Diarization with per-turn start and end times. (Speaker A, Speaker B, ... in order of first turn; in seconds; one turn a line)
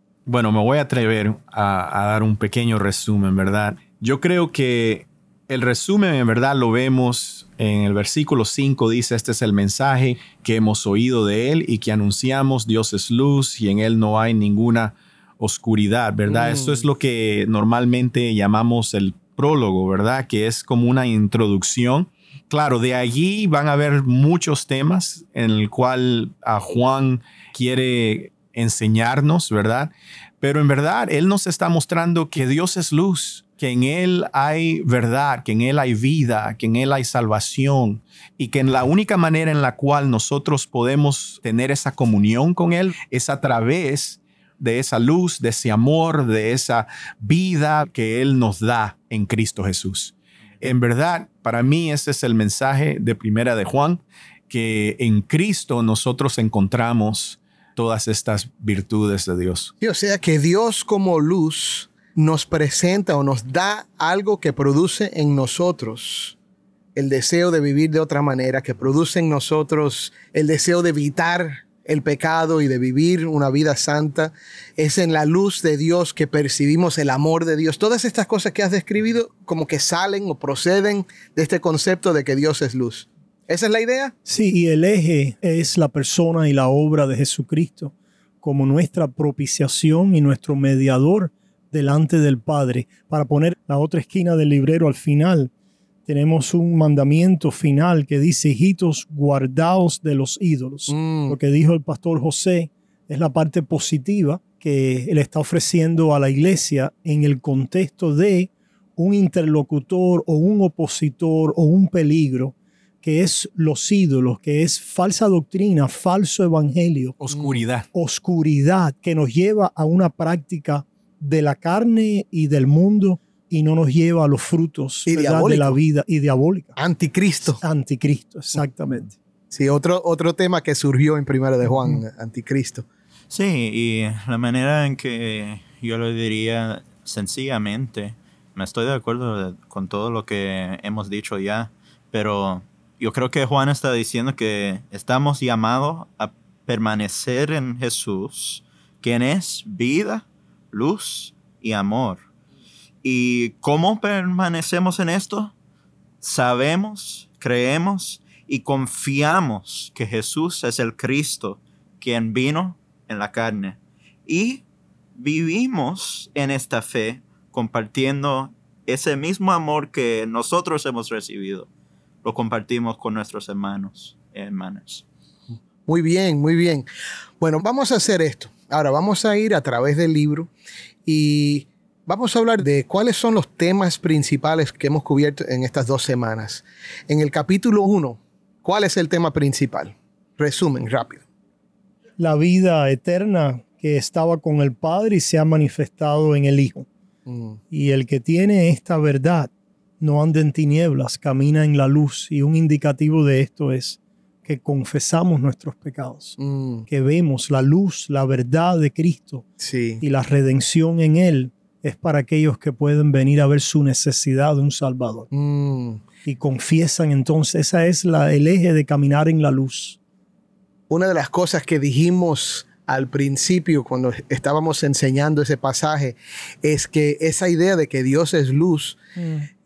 Speaker A: 0.2-59.7
Speaker B: 16.3-16.8
Speaker B: 59.8-66.3
Speaker B: 66.9-84.1
Speaker C: 84.2-95.5
Speaker C: 96.0-117.2
Speaker B: 100.9-101.4
Speaker A: 117.2-117.9
Speaker B: 117.3-117.6
Speaker C: 117.9-126.8
Speaker B: 125.1-125.8
Speaker B: 126.8-127.6
Speaker C: 127.6-129.1
Speaker B: 129.5-132.8
Speaker D: 133.3-152.2
Speaker D: 153.0-155.5
Speaker D: 156.2-164.6
Speaker D: 165.2-171.7
Speaker D: 172.2-175.0
Speaker B: 175.9-176.9
Speaker B: 177.4-180.5
Speaker B: 181.1-191.2
Speaker C: 192.2-196.9
Speaker B: 197.2-197.6
Speaker C: 197.7-206.4
Speaker B: 206.4-206.8
Speaker C: 206.9-209.4
Speaker B: 209.6-210.0
Speaker C: 210.0-215.3
Speaker B: 215.3-216.0
Speaker C: 216.2-220.0
Speaker B: 220.9-229.0
Speaker C: 229.2-229.5